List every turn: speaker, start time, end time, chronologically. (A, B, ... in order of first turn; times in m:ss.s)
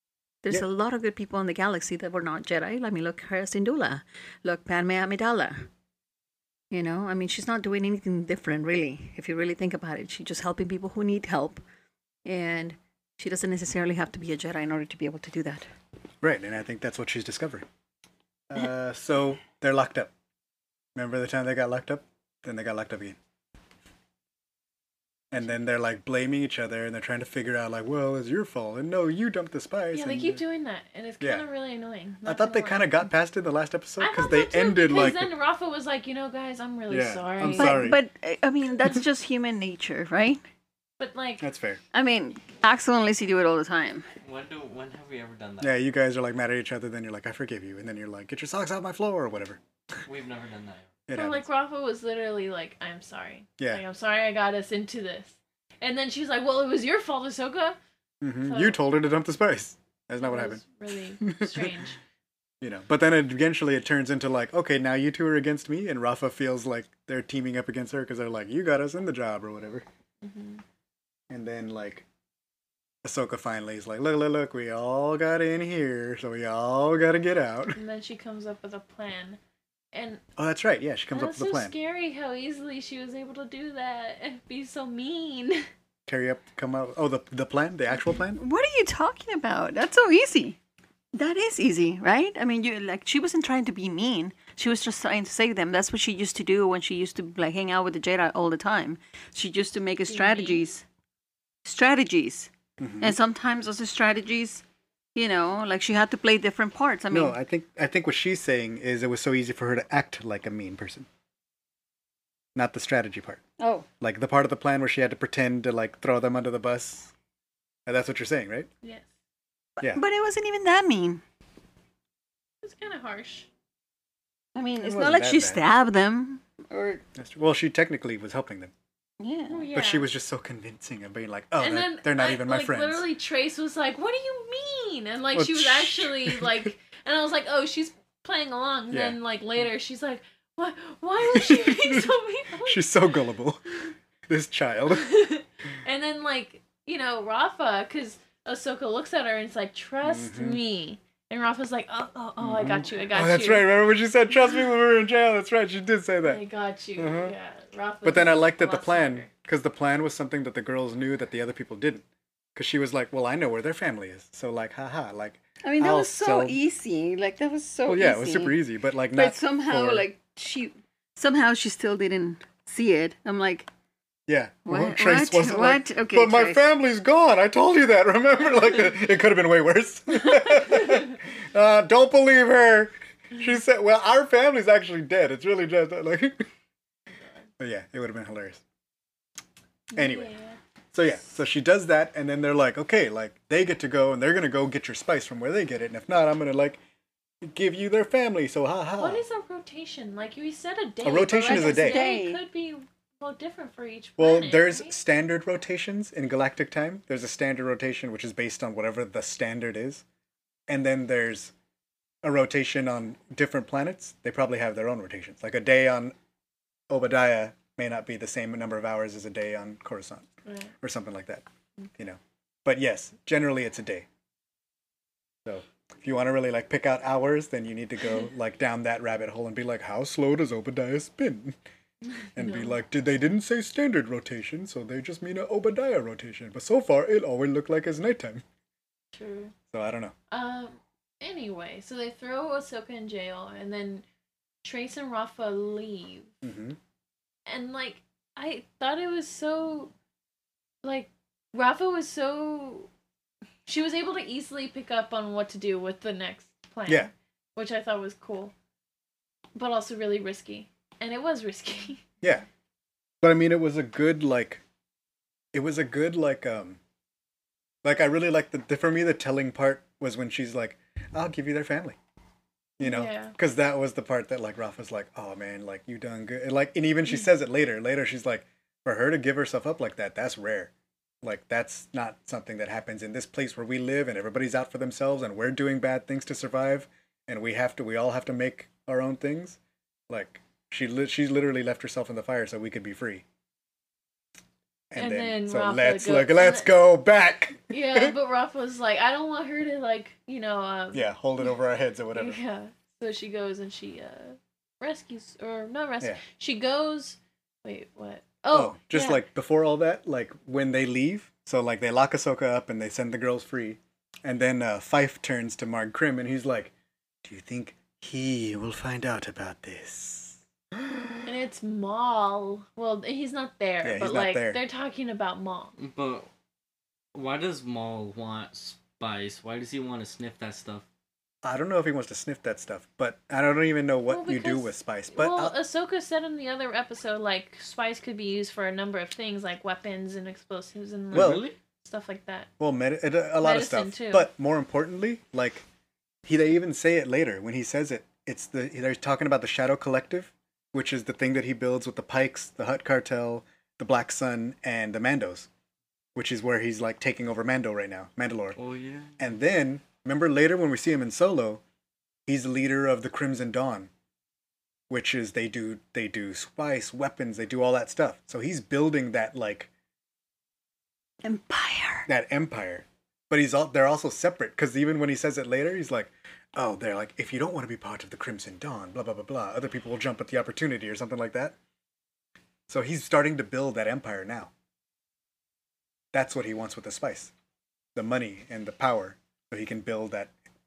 0:00.4-0:05.7 A
0:06.7-0:11.6 A
0:12.2-0:15.7 A
0:16.2-0:17.6 B
0:18.5-0:20.1 B
0:20.9-0:23.2 B
0:25.3-0:30.4 B
0:29.9-0:33.0 C
0:32.2-0:35.3 B
0:34.0-0:37.8 C
0:36.9-0:38.0 B
0:37.6-0:40.4 A
0:41.0-0:41.4 C
0:41.4-0:41.8 B
0:41.9-0:44.1 A
0:44.2-0:45.7 D
0:45.6-0:49.6 B
0:50.0-0:50.9 D
0:51.1-0:51.5 B
0:51.1-0:57.8 C
0:58.2-1:00.6 B
0:58.4-0:58.8 C
1:00.2-1:02.0 C
1:01.2-1:01.8 B
1:02.6-1:09.8 B
1:10.2-1:10.6 C
1:11.3-1:12.0 B
1:13.0-1:17.8 B
1:17.7-1:19.4 C
1:19.9-1:20.2 C
1:20.4-1:21.7 B
1:21.1-1:25.6 C
1:26.1-1:28.4 B
1:28.3-1:30.6 A
1:31.1-1:40.8 A
1:40.1-1:40.6 C
1:41.6-1:44.6 A
1:42.8-1:43.2 B
1:45.1-1:47.3 A
1:47.1-1:51.1 B
1:52.5-1:53.4 B
1:53.6-1:53.8 A
1:54.0-1:57.1 B
1:57.8-1:58.7 B
1:58.8-1:59.1 C
1:59.8-2:01.2 A
2:02.6-2:03.5 C
2:04.5-2:07.0 A
2:04.8-2:05.6 B
2:07.1-2:08.7 B
2:09.2-2:09.6 A
2:09.5-2:10.1 C
2:09.7-2:13.0 B
2:11.6-2:22.9 C
2:15.3-2:16.6 B
2:18.9-2:19.2 B
2:21.2-2:22.1 B
2:22.6-2:23.6 B
2:24.3-2:25.1 B
2:24.9-2:33.8 C
2:30.0-2:30.6 B
2:32.4-2:36.4 B
2:36.2-2:39.3 C
2:37.0-2:37.3 B
2:38.0-2:42.0 B
2:42.6-2:46.6 B
2:45.6-2:48.6 A
2:47.9-2:50.1 B
2:49.1-2:53.7 A
2:54.3-3:06.4 B
2:54.7-2:56.6 A
3:07.6-3:08.6 B
3:09.9-3:10.3 B
3:09.9-3:10.6 C
3:10.9-3:16.8 B
3:17.4-3:19.2 B
3:19.0-3:24.9 C
3:21.0-3:22.0 B
3:21.4-3:22.4 A
3:24.2-3:30.0 B
3:30.7-3:31.5 B
3:32.2-3:36.1 B
3:36.9-3:40.3 B
3:40.4-3:40.7 C
3:40.8-3:41.4 B
3:42.0-3:44.0 B
3:45.4-3:51.6 B
3:52.2-3:52.7 C
3:52.4-3:58.4 B
3:59.1-3:59.5 C
3:59.7-4:00.1 B
4:00.3-4:04.0 C
4:04.6-4:06.3 C
4:06.4-4:06.8 B
4:07.4-4:09.9 C
4:10.8-4:12.9 C
4:13.6-4:18.5 C
4:19.5-4:22.0 C
4:23.2-4:24.6 B
4:25.5-4:26.8 B
4:27.8-4:32.0 B
4:32.8-4:49.6 B
4:32.8-4:33.3 C
4:50.1-4:53.2 B
4:54.9-4:58.1 B
4:55.0-4:56.7 C
4:57.7-5:01.0 C
5:00.9-5:02.4 B
5:02.1-5:09.2 C
5:08.5-5:16.7 B
5:17.2-5:21.2 B
5:21.2-5:25.7 C
5:23.8-5:24.6 B
5:25.8-5:26.3 D
5:27.1-5:30.8 D
5:31.4-5:35.5 B
5:34.1-5:42.5 C
5:41.1-5:41.6 D
5:41.1-5:41.4 B
5:42.6-5:45.6 B
5:43.4-5:44.3 C
5:46.2-5:55.5 B
5:56.1-5:58.6 B
5:58.6-5:59.2 D
5:59.2-6:01.6 B
6:02.3-6:03.9 B
6:04.9-6:09.7 B
6:11.2-6:12.1 A
6:12.1-6:21.6 B
6:22.7-6:24.5 B
6:26.1-6:27.3 B
6:27.9-6:30.3 B